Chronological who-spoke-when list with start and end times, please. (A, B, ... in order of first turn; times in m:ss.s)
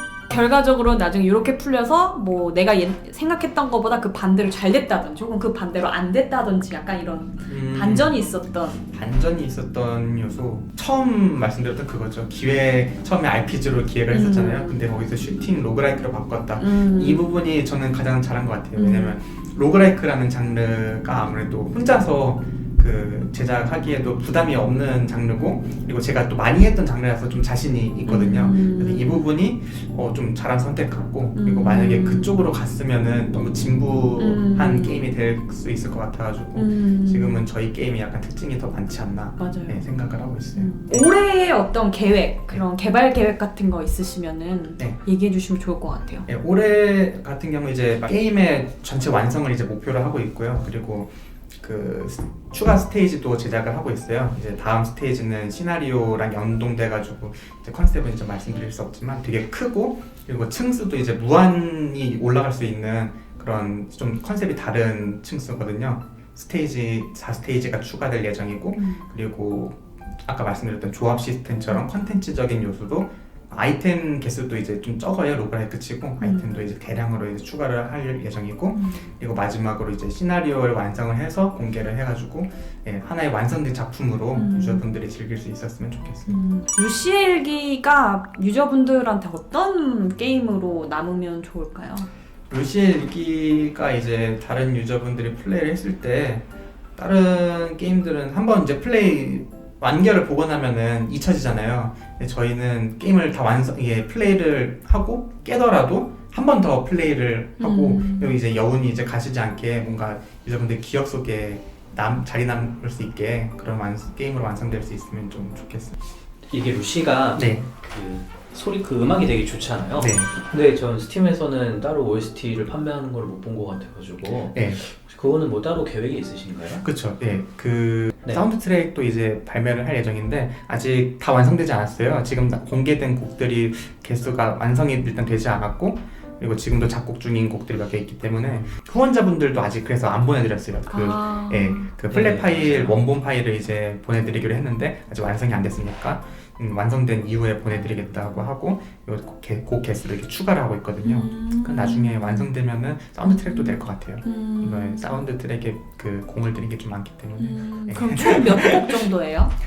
0:00.3-0:08.8 A
0:07.4-0:08.2 B
0:08.9-0:41.1 B
0:14.1-0:14.8 A
0:16.6-0:17.3 A
0:18.8-0:19.2 A
0:28.0-0:29.3 A
0:31.3-0:32.4 A
0:34.2-0:35.1 A
0:36.6-0:37.5 A
0:39.4-0:46.2 A
0:46.2-1:26.4 B
1:08.7-1:09.1 A
1:16.2-1:16.7 A
1:18.7-1:19.1 A
1:24.3-1:24.8 A
1:26.3-1:32.1 A
1:32.5-1:36.4 B
1:37.0-1:55.9 B
1:47.6-1:48.4 A
1:56.5-2:06.8 C
1:57.3-1:57.7 B
2:00.0-2:00.3 B
2:04.5-2:04.8 B
2:06.8-2:39.0 B
2:20.9-2:21.9 A
2:22.1-2:23.0 C
2:31.0-2:32.5 A
2:33.2-2:35.1 A
2:37.4-2:39.5 A